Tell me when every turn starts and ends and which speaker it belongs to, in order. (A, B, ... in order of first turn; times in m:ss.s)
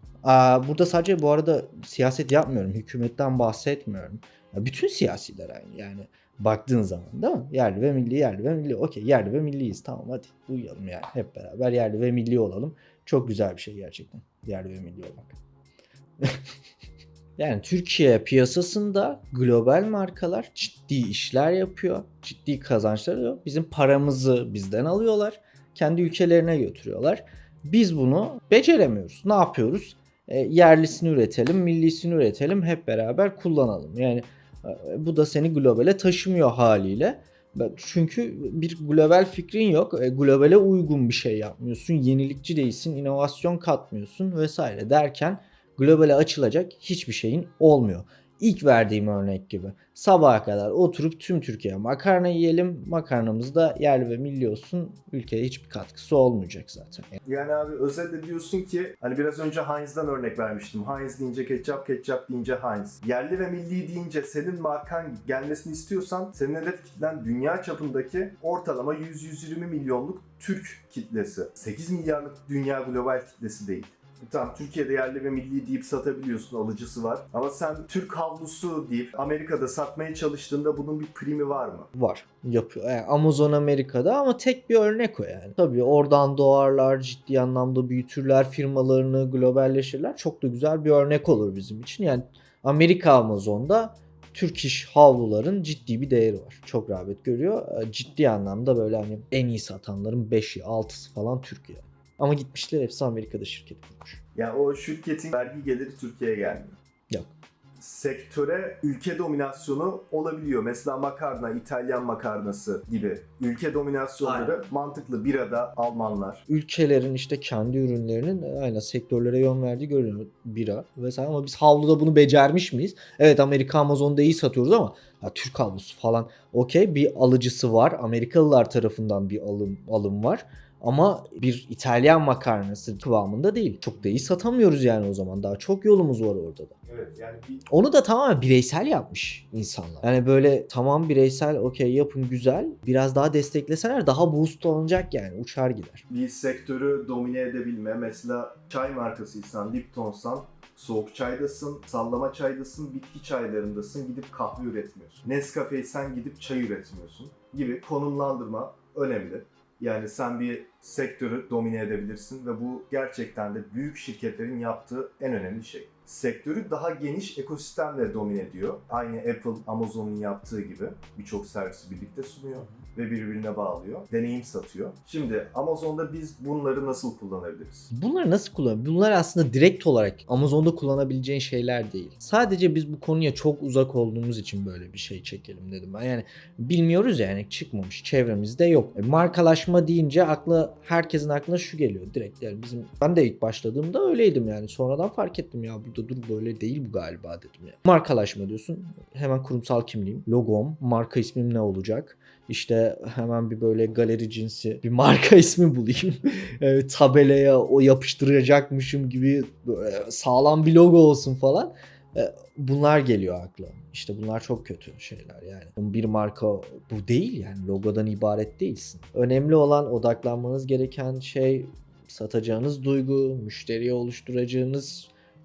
0:00.2-0:15.3 A
0:17.4-0:57.1 A
0:57.2-1:21.9 B
1:21.9-1:44.2 A
1:44.3-1:46.8 B
1:47.8-1:56.4 B
1:54.2-1:54.6 A
1:56.5-2:16.7 A
2:16.8-2:17.6 B
2:17.7-2:26.0 A
2:26.1-2:57.9 B
2:57.9-3:45.1 A